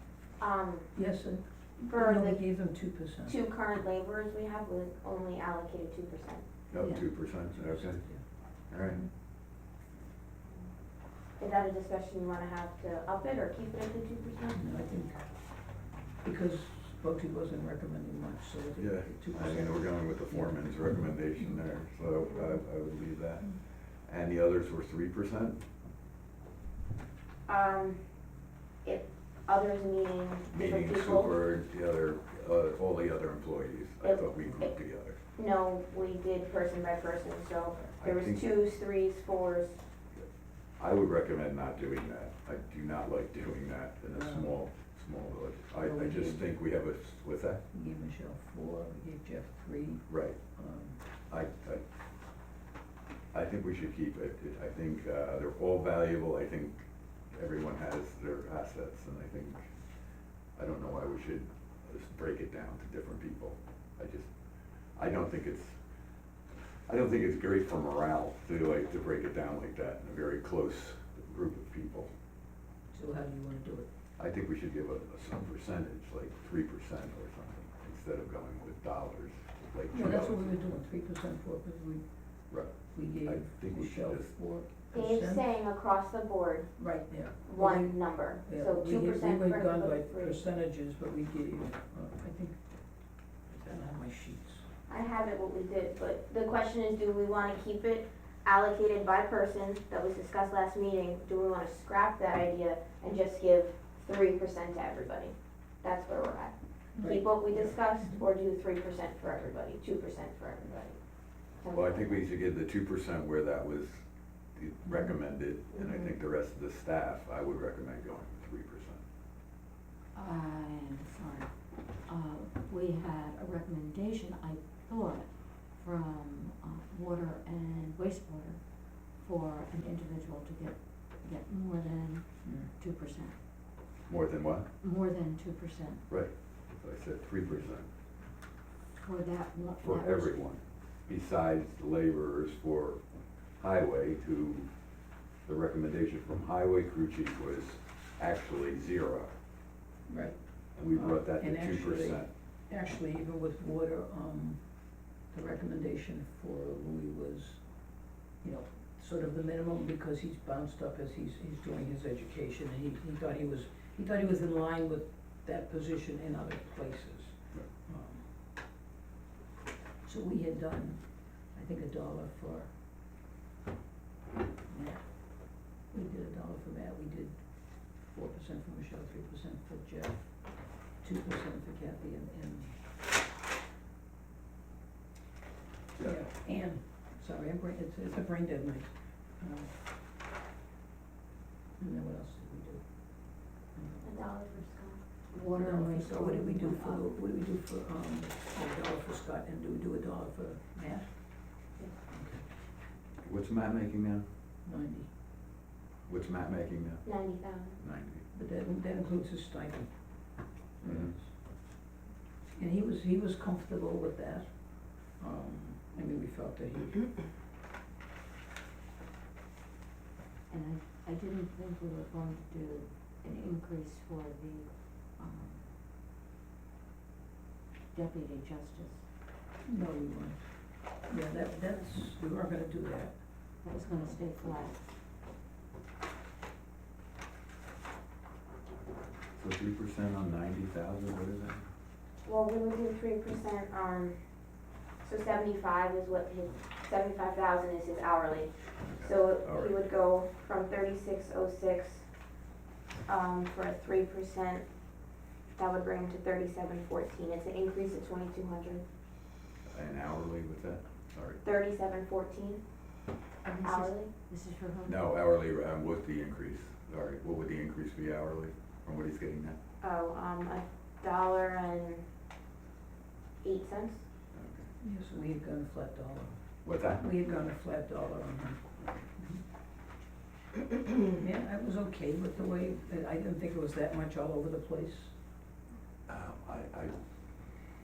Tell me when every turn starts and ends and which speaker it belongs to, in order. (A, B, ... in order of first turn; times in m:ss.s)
0:00.4-0:00.9 A
0:01.0-0:03.3 B
0:01.8-0:02.4 A
0:03.2-0:06.4 A
0:06.7-0:08.0 C
0:06.8-0:08.2 B
0:08.7-0:09.0 C
0:11.4-0:14.6 A
0:14.6-0:15.2 B
0:16.2-0:21.6 B
0:18.8-0:25.6 C
0:22.3-0:22.6 A
0:27.5-0:28.0 A
0:28.8-0:31.4 A
0:30.5-0:35.2 C
0:34.0-0:34.7 A
0:35.3-0:39.8 A
0:38.0-0:38.4 C
0:40.8-0:47.6 C
0:44.1-0:44.6 B
0:45.8-0:46.4 B
0:47.7-0:51.0 B
0:50.1-0:50.4 C
0:51.3-0:51.8 C
0:53.3-0:59.6 C
1:00.6-1:04.3 C
1:05.0-1:05.8 C
1:06.9-1:12.1 C
1:12.9-1:13.9 B
1:14.2-1:20.4 C
1:19.9-1:22.0 B
1:22.5-1:24.3 C
1:22.9-1:25.5 B
1:24.9-1:26.7 A
1:26.8-1:32.6 B
1:27.4-1:30.4 A
1:33.5-1:34.6 B
1:34.9-1:51.0 A
1:47.0-1:48.2 B
1:51.6-1:52.2 A
1:51.7-1:54.0 C
1:54.6-1:59.0 C
2:00.2-2:01.5 D
2:02.1-2:08.6 D
2:09.2-2:13.3 D
2:12.4-2:12.7 B
2:14.1-2:14.7 C
2:14.8-2:16.0 D
2:16.1-2:17.9 C
2:18.9-2:20.4 D
2:19.8-2:23.0 C
2:23.6-2:24.7 C
2:25.5-2:29.3 C
2:30.1-2:30.4 B
2:30.8-2:32.3 C
2:30.9-2:34.6 B
2:35.3-2:37.6 B
2:38.4-2:48.3 B
2:50.0-2:52.7 B
2:54.7-2:57.4 B
2:58.0-3:00.2 B
3:01.0-3:02.8 B
3:06.0-3:09.7 B
3:11.8-3:12.8 B
3:13.8-3:14.0 B
3:14.0-3:15.0 A
3:15.3-3:17.1 D
3:15.5-3:21.1 B
3:22.1-3:22.4 B
3:23.2-3:24.2 C
3:24.6-3:25.1 B
3:26.1-3:27.2 C
3:27.1-3:27.8 A
3:27.8-3:28.2 C
3:28.3-3:29.9 B
3:30.8-3:31.3 B
3:30.8-3:31.2 C
3:32.6-3:34.5 B
3:35.0-3:37.1 B
3:40.5-3:45.6 D
3:47.9-3:49.0 D
3:49.7-3:50.4 B
3:51.1-3:53.1 B
3:53.6-3:54.8 D
3:59.4-4:01.6 C
4:02.2-4:04.2 A
4:05.0-4:12.0 A
4:08.8-4:09.8 C
4:13.1-4:14.6 A
4:15.6-4:18.8 A
4:19.7-4:21.4 C
4:21.4-4:22.6 A
4:23.4-4:25.0 D
4:23.6-4:24.1 A
4:24.9-4:29.6 C
4:29.8-4:32.0 A
4:33.4-4:34.0 A
4:34.3-4:34.7 C
4:34.8-4:36.4 B
4:36.6-4:37.0 C
4:36.9-4:38.6 B
4:40.6-4:45.1 B
4:46.1-4:46.9 C